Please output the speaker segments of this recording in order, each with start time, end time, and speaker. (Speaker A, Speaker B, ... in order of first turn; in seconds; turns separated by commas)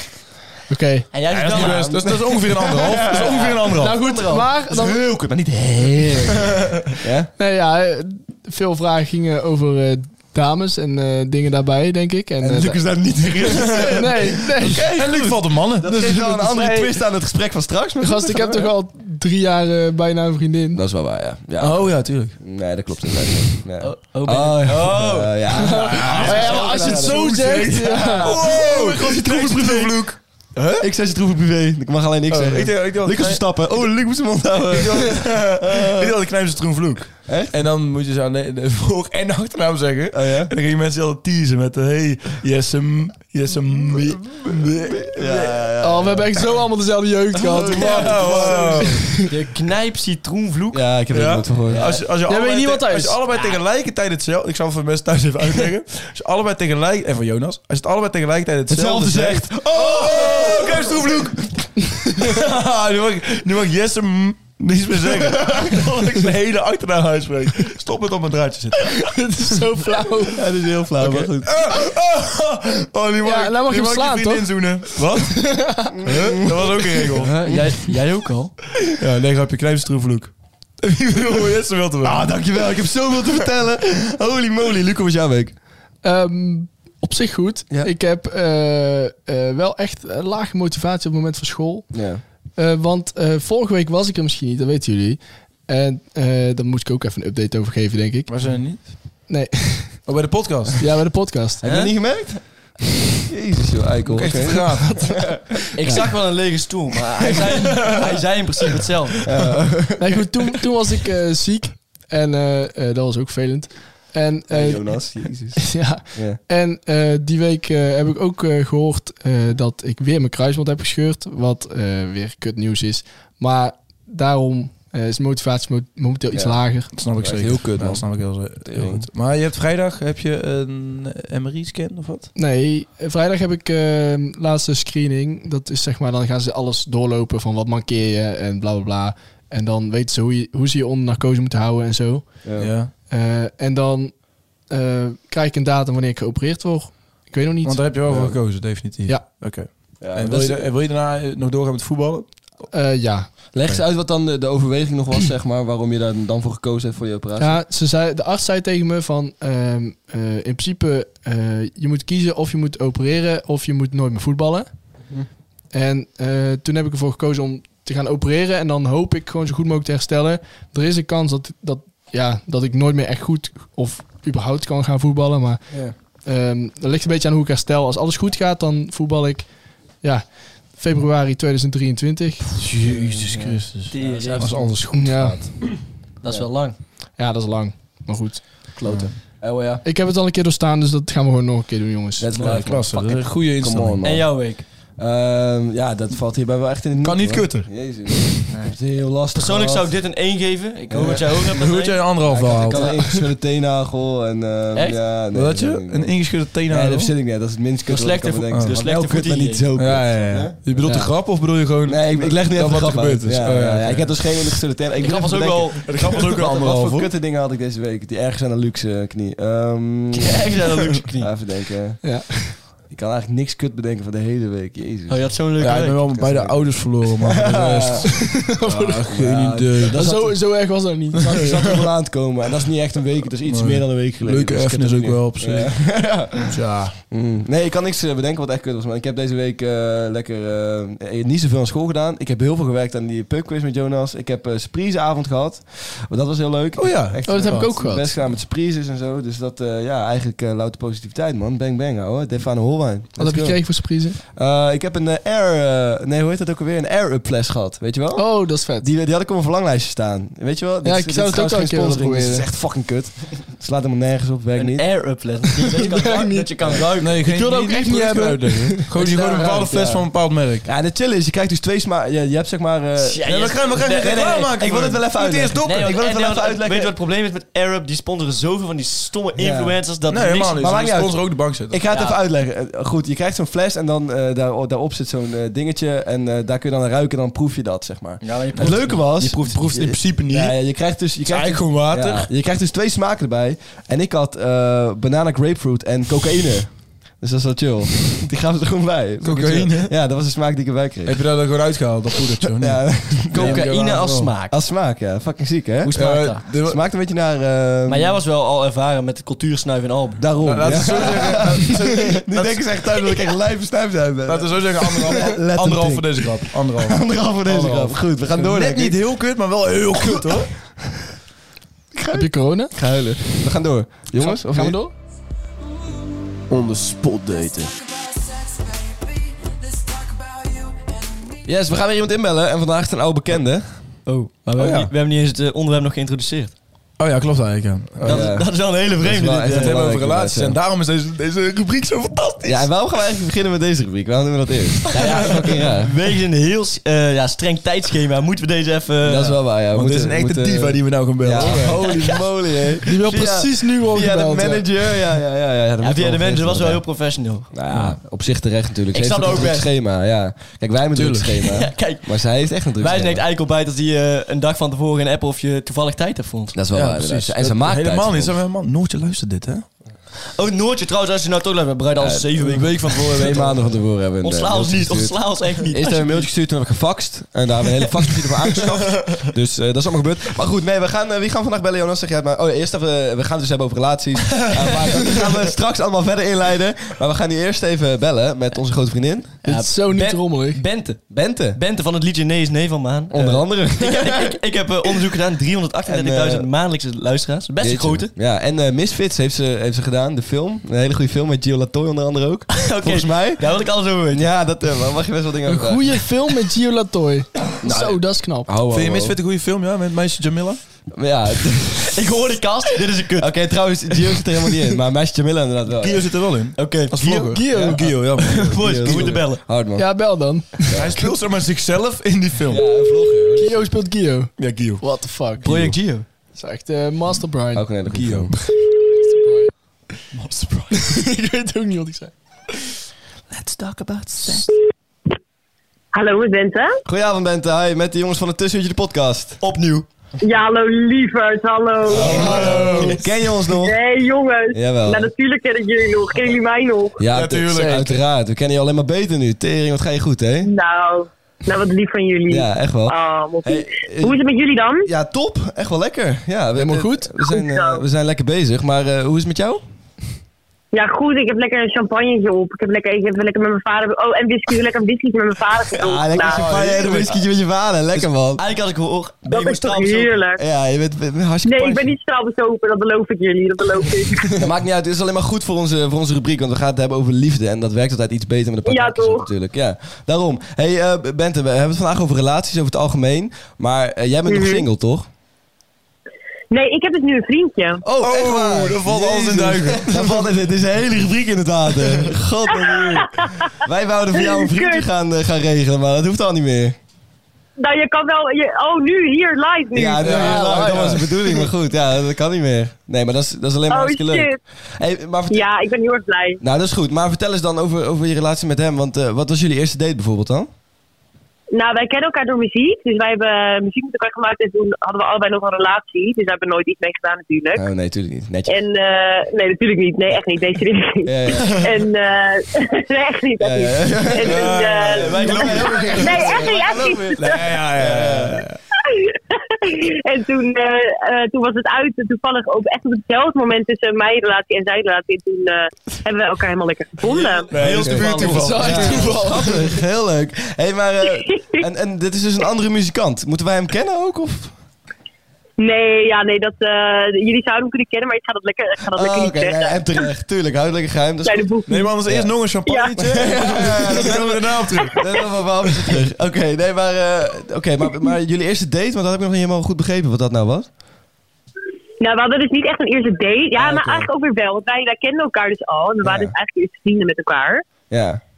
Speaker A: 0.7-1.1, Speaker B: 1.1-2.1, Speaker C: 1.3-4.1, Speaker D: 1.5-7.3, Speaker A: 3.8-5.0, Speaker A: 7.4-12.8, Speaker D: 12.4-18.7, Speaker A: 14.0-14.9, Speaker C: 14.6-16.5, Speaker A: 16.4-16.9, Speaker A: 18.0-20.8, Speaker D: 20.8-30.2, Speaker C: 21.6-22.4, Speaker B: 23.8-27.0, Speaker A: 25.6-28.4, Speaker C: 26.1-30.9, Speaker D: 30.8-36.1, Speaker C: 32.3-33.4, Speaker C: 34.8-45.7, Speaker D: 37.3-37.5, Speaker D: 40.1-40.5, Speaker D: 45.1-46.2, Speaker A: 45.8-49.1, Speaker D: 47.3-49.1, Speaker C: 47.8-49.2, Speaker B: 49.2-50.9, Speaker D: 50.7-51.9, Speaker C: 51.1-61.4, Speaker B: 51.7-52.0, Speaker A: 52.3-53.2, Speaker B: 53.3-53.6, Speaker D: 58.7-61.2, Speaker B: 60.2-60.9, Speaker C: 62.1-69.3, Speaker A: 69.1-70.4, Speaker D: 70.4-71.6, Speaker C: 71.0-77.4, Speaker A: 73.2-75.9, Speaker D: 76.0-77.2, Speaker B: 77.2-78.6, Speaker C: 78.8-82.3, Speaker D: 82.0-85.6, Speaker A: 86.0-91.9, Speaker D: 91.9-92.2, Speaker A: 92.6-100.1, Speaker C: 98.3-99.3, Speaker C: 100.0-100.8, Speaker A: 100.8-101.6, Speaker D: 101.6-106.1, Speaker B: 101.6-101.9, Speaker C: 104.1-105.3, Speaker B: 105.7-109.2, Speaker C: 107.6-108.0, Speaker D: 109.2-110.2, Speaker A: 110.0-126.9, Speaker D: 114.5-116.4, Speaker D: 126.3-129.1, Speaker C: 126.9-132.3, Speaker A: 132.4-147.8, Speaker D: 142.4-142.7, Speaker C: 142.6-142.9, Speaker C: 147.6-152.7, Speaker D: 148.1-148.6, Speaker D: 150.0-150.7, Speaker A: 152.7-153.3, Speaker D: 153.5-157.6, Speaker A: 157.4-164.7, Speaker A: 165.7-182.5, Speaker D: 175.7-175.9, Speaker C: 182.5-185.8, Speaker D: 182.8-184.5, Speaker B: 183.9-184.7, Speaker A: 184.9-185.4, Speaker B: 186.2-186.8, Speaker A: 187.2-188.8, Speaker D: 188.8-189.8, Speaker C: 188.9-189.1, Speaker A: 189.8-192.6, Speaker D: 192.2-200.0, Speaker C: 192.3-194.1, Speaker B: 194.0-194.6, Speaker C: 197.0-198.5, Speaker B: 198.5-198.8, Speaker B: 199.3-203.0, Speaker D: 200.9-201.2, Speaker C: 201.3-203.1, Speaker D: 202.3-211.3, Speaker B: 204.7-205.0, Speaker C: 205.3-207.1, Speaker B: 207.9-209.7, Speaker C: 208.5-208.8, Speaker C: 209.8-214.6, Speaker D: 211.8-220.6, Speaker B: 215.0-216.4, Speaker C: 215.8-217.1, Speaker B: 220.2-221.3, Speaker D: 221.2-225.4, Speaker A: 222.0-222.6, Speaker B: 225.1-226.1, Speaker C: 225.6-230.4, Speaker D: 226.1-228.1, Speaker A: 228.5-229.1, Speaker D: 229.1-230.3, Speaker A: 229.9-231.6, Speaker C: 231.3-231.7, Speaker D: 231.3-265.2, Speaker C: 233.5-236.9, Speaker C: 246.8-247.7, Speaker A: 247.3-248.1, Speaker A: 253.2-254.2, Speaker A: 258.2-258.9, Speaker A: 260.8-262.5, Speaker B: 264.6-267.2, Speaker A: 265.8-266.5, Speaker C: 267.0-270.7, Speaker A: 267.1-268.9, Speaker B: 269.0-269.5, Speaker D: 269.0-276.9, Speaker B: 273.0-274.5, Speaker C: 273.3-275.9, Speaker B: 275.6-280.7, Speaker D: 279.4-279.8, Speaker C: 280.1-281.8, Speaker D: 280.6-301.2, Speaker B: 281.9-282.2, Speaker B: 288.2-289.8, Speaker C: 288.6-290.6, Speaker C: 291.3-292.3, Speaker C: 299.2-299.9, Speaker C: 301.1-304.4, Speaker D: 302.5-303.9, Speaker B: 303.3-304.6, Speaker D: 304.5-308.1, Speaker C: 305.9-306.8, Speaker B: 305.9-306.4, Speaker B: 307.9-311.1, Speaker D: 310.2-319.1, Speaker C: 310.4-312.6, Speaker C: 314.3-320.6, Speaker D: 319.9-320.7, Speaker D: 321.9-324.8, Speaker A: 322.1-322.7, Speaker A: 324.2-324.9, Speaker C: 326.5-327.7, Speaker D: 331.4-333.9, Speaker B: 334.1-336.6, Speaker C: 334.6-334.9, Speaker C: 337.0-338.3, Speaker B: 338.0-339.8, Speaker D: 338.1-340.6, Speaker C: 339.5-342.7, Speaker D: 342.4-345.9, Speaker B: 344.9-349.4, Speaker D: 349.0-356.8, Speaker C: 349.7-352.1, Speaker B: 351.6-352.2, Speaker A: 352.9-354.6, Speaker B: 355.8-357.5, Speaker D: 357.5-363.2, Speaker C: 357.7-358.0, Speaker B: 358.9-359.7, Speaker C: 360.9-361.4, Speaker B: 361.4-362.2, Speaker B: 362.8-366.6, Speaker D: 366.5-368.4, Speaker C: 366.7-369.7, Speaker B: 370.4-373.6, Speaker D: 372.0-389.4, Speaker C: 372.5-373.4, Speaker B: 374.2-376.3, Speaker A: 389.4-390.6, Speaker B: 389.4-398.1, Speaker D: 391.1-391.6, Speaker D: 393.1-394.4, Speaker D: 395.9-396.5, Speaker D: 397.6-406.0, Speaker B: 402.5-404.3, Speaker A: 405.5-408.5, Speaker D: 407.6-409.2, Speaker C: 408.7-410.6, Speaker D: 410.9-411.9, Speaker B: 411.9-413.7, Speaker D: 413.2-416.2, Speaker C: 415.8-419.2, Speaker B: 416.6-417.3, Speaker A: 417.2-417.8, Speaker D: 417.8-420.0, Speaker B: 418.2-419.4, Speaker A: 419.8-421.1, Speaker D: 420.7-421.0, Speaker C: 420.7-422.6, Speaker D: 422.5-423.7, Speaker A: 423.4-425.5, Speaker C: 424.4-424.9, Speaker C: 425.4-425.7, Speaker B: 425.4-426.1, Speaker A: 426.4-429.5, Speaker D: 427.5-428.3, Speaker C: 427.9-428.3, Speaker C: 430.1-431.0, Speaker A: 430.7-432.1, Speaker E: 435.9-436.8, Speaker D: 436.9-439.4, Speaker B: 439.4-439.9, Speaker E: 440.2-442.7, Speaker D: 441.9-443.8, Speaker C: 441.9-443.0, Speaker E: 443.5-447.0, Speaker D: 444.5-445.1, Speaker D: 447.0-450.5, Speaker C: 447.1-448.0, Speaker A: 447.5-447.8, Speaker E: 450.4-454.9, Speaker D: 452.3-454.2, Speaker D: 454.8-459.6, Speaker A: 456.6-457.1, Speaker E: 457.3-457.8, Speaker E: 460.7-466.4, Speaker D: 465.8-468.4, Speaker B: 466.2-467.2, Speaker B: 467.9-470.1, Speaker E: 469.3-470.4, Speaker D: 470.4-471.9, Speaker E: 471.4-474.4, Speaker D: 474.4-485.1, Speaker E: 478.7-479.3, Speaker E: 484.3-484.6, Speaker E: 486.5-487.8, Speaker D: 487.8-496.8, Speaker C: 488.0-490.2, Speaker E: 492.5-493.3, Speaker E: 494.2-494.9, Speaker E: 497.6-500.7, Speaker D: 499.7-505.5, Speaker C: 500.0-501.0, Speaker A: 500.2-500.9, Speaker E: 503.7-504.4, Speaker E: 505.3-506.4, Speaker D: 506.4-510.5, Speaker E: 511.5-517.6, Speaker D: 517.5-518.6, Speaker E: 518.5-527.5, Speaker D: 521.0-521.6, Speaker D: 523.4-528.4, Speaker C: 524.2-526.2, Speaker B: 524.8-526.4, Speaker C: 527.2-528.6, Speaker E: 528.8-537.5, Speaker B: 537.0-539.1, Speaker C: 537.5-539.2, Speaker A: 537.9-539.6, Speaker D: 538.6-544.5, Speaker E: 545.6-550.0, Speaker D: 548.9-551.5, Speaker E: 551.2-552.0, Speaker C: 551.7-555.0, Speaker D: 552.1-552.3, Speaker E: 552.7-553.0, Speaker D: 553.0-560.7, Speaker E: 562.0-567.6, Speaker D: 563.5-564.1, Speaker D: 566.0-566.3, Speaker D: 567.9-568.2